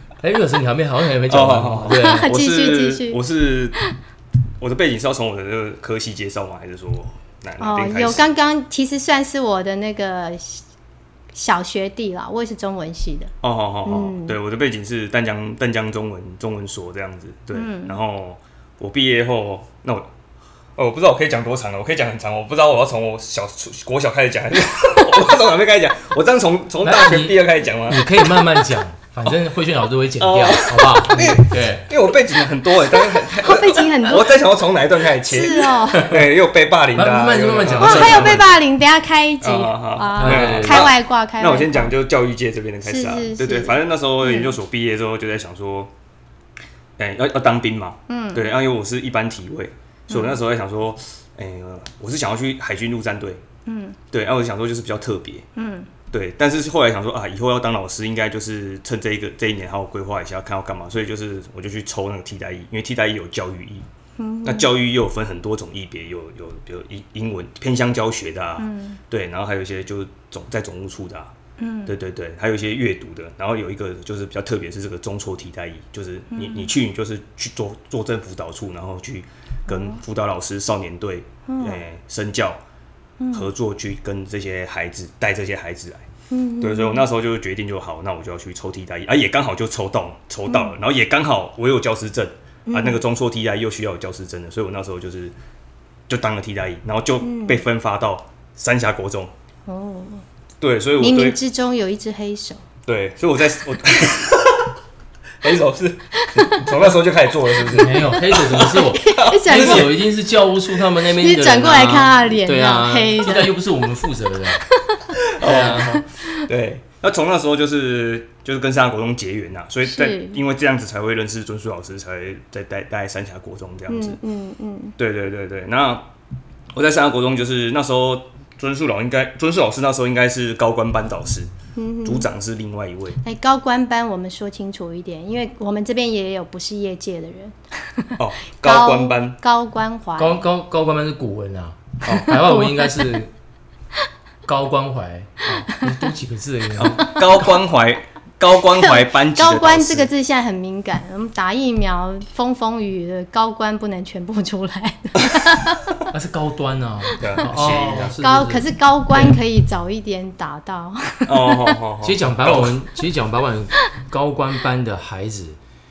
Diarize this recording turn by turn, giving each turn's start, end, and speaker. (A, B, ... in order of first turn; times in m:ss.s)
0:00.2-0:02.3 A
0:01.3-0:03.8 B
0:01.9-0:03.2 C
0:04.6-0:08.3 B
0:07.6-0:10.6 C
0:11.3-0:13.3 C
0:13.4-0:20.1 B
0:13.8-0:14.4 C
0:17.5-0:18.0 C
0:20.8-0:28.5 B
0:26.8-0:31.9 A
0:30.2-0:38.6 B
0:33.1-0:34.4 C
0:35.2-0:36.1 C
0:36.0-0:36.3 A
0:36.9-0:38.5 A
0:37.8-0:41.9 C
0:39.4-0:45.9 B
0:40.2-0:40.9 A
0:42.8-0:44.5 C
0:47.0-0:53.4 B
0:48.1-0:48.5 C
0:50.1-0:50.4 C
0:53.7-0:54.0 C
0:54.1-0:55.5 B
0:55.6-0:55.9 C
0:56.1-1:03.9 B
1:04.2-1:04.7 C
1:04.4-1:11.3 B
1:08.6-1:09.0 C
1:11.6-1:11.9 C
1:11.9-1:22.6 B
1:16.3-1:16.7 C
1:19.7-1:20.0 C
1:21.5-1:21.8 C
1:23.2-1:23.5 C
1:23.3-1:26.1 B
1:26.3-1:27.1 C
1:26.6-1:35.3 B
1:30.5-1:30.7 C
1:32.7-1:33.0 C
1:36.1-1:39.3 B
1:37.2-1:37.6 C
1:39.7-1:40.2 C
1:40.6-1:41.4 B
1:41.0-1:42.6 C
1:42.9-1:44.8 B
1:45.4-1:50.0 B
1:46.2-1:46.6 C
1:47.7-1:54.6 A
1:48.1-1:49.9 C
1:51.1-1:53.5 C
1:54.7-1:55.1 C
1:55.3-2:04.2 B
1:55.4-1:56.0 A
1:55.9-1:56.5 C
1:59.8-2:00.4 C
2:03.9-2:04.9 C
2:05.0-2:06.1 B
2:06.7-2:11.5 B
2:11.8-2:12.3 C
2:12.0-2:13.2 B
2:13.2-2:20.4 C
2:18.2-2:19.4 B
2:20.2-2:23.3 A
2:22.0-2:22.3 B
2:22.1-2:23.1 C
2:24.5-2:27.5 A
2:25.7-2:26.0 C
2:26.8-2:30.1 B
2:28.8-2:35.8 C
2:36.1-2:38.7 A
2:37.2-2:38.2 B
2:37.4-2:41.7 C
2:41.3-2:42.8 B
2:42.0-2:45.6 A